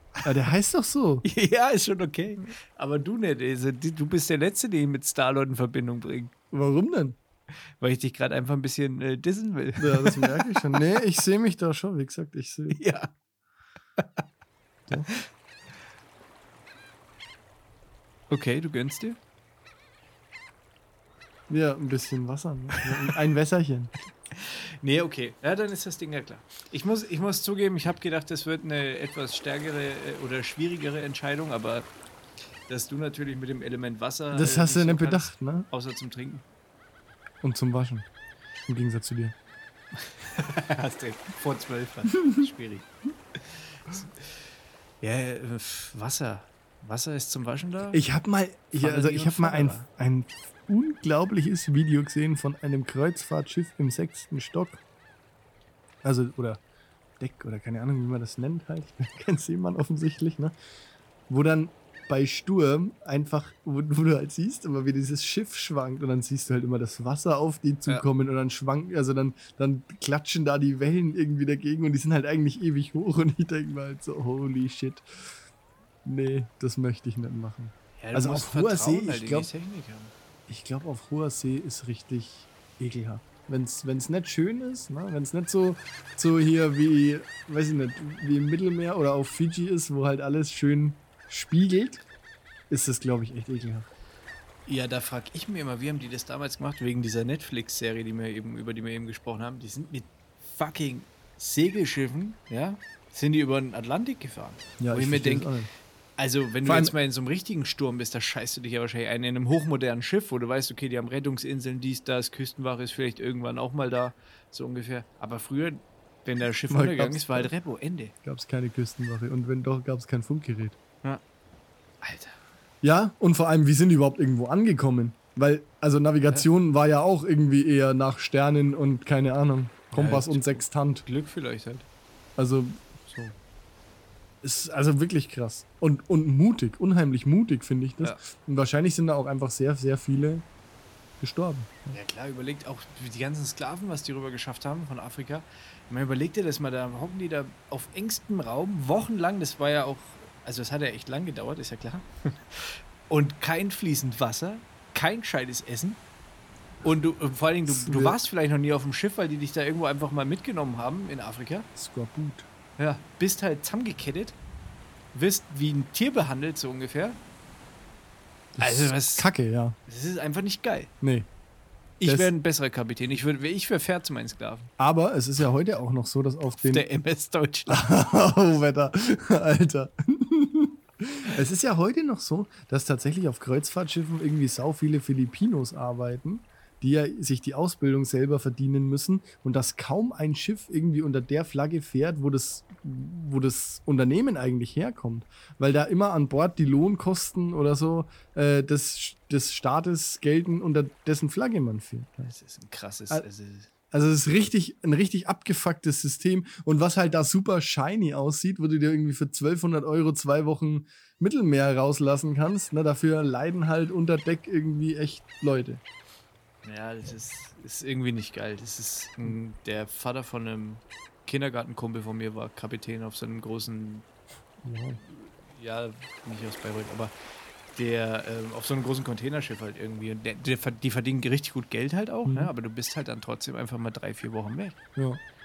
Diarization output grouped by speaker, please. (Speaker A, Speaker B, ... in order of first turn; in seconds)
Speaker A: 0.2-1.3, 6.5-7.2, 9.8-12.8, 21.5-23.9, 34.3-35.7, 37.4-38.1, 38.7-39.3, 47.9-54.8, 56.0-56.6, 57.2-60.5, 61.3-75.1, 76.0-79.5, 80.5-92.0, 92.7-93.9, 104.8-105.7, 106.7-106.9, 116.7-117.5, 118.2-120.8, 122.8-131.1, 132.4-132.8, 134.4-140.5, 141.2-142.0, 157.7-158.2, 161.8-162.5, 168.6-169.8, 171.0-171.3, 172.0-172.3, 174.8-176.8, 177.7-202.3, 203.9-215.8, 224.7-225.0, 232.3-232.5
Speaker B: 1.2-6.3, 7.8-10.8, 12.7-13.1, 18.3-19.2, 24.3-31.9, 32.7-36.5, 40.0-42.9, 43.6-44.3, 45.0-48.0, 48.8-49.9, 78.0-80.1, 94.7-105.5, 106.2-118.1, 122.0-122.4, 129.9-131.9, 133.1-133.4, 141.9-156.0, 156.8-161.7, 162.8-164.4, 165.1-167.2, 168.6-169.3, 169.9-170.9, 172.0-174.7, 176.6-177.9, 202.3-203.7, 216.6-224.1, 225.0-227.1, 227.7-234.8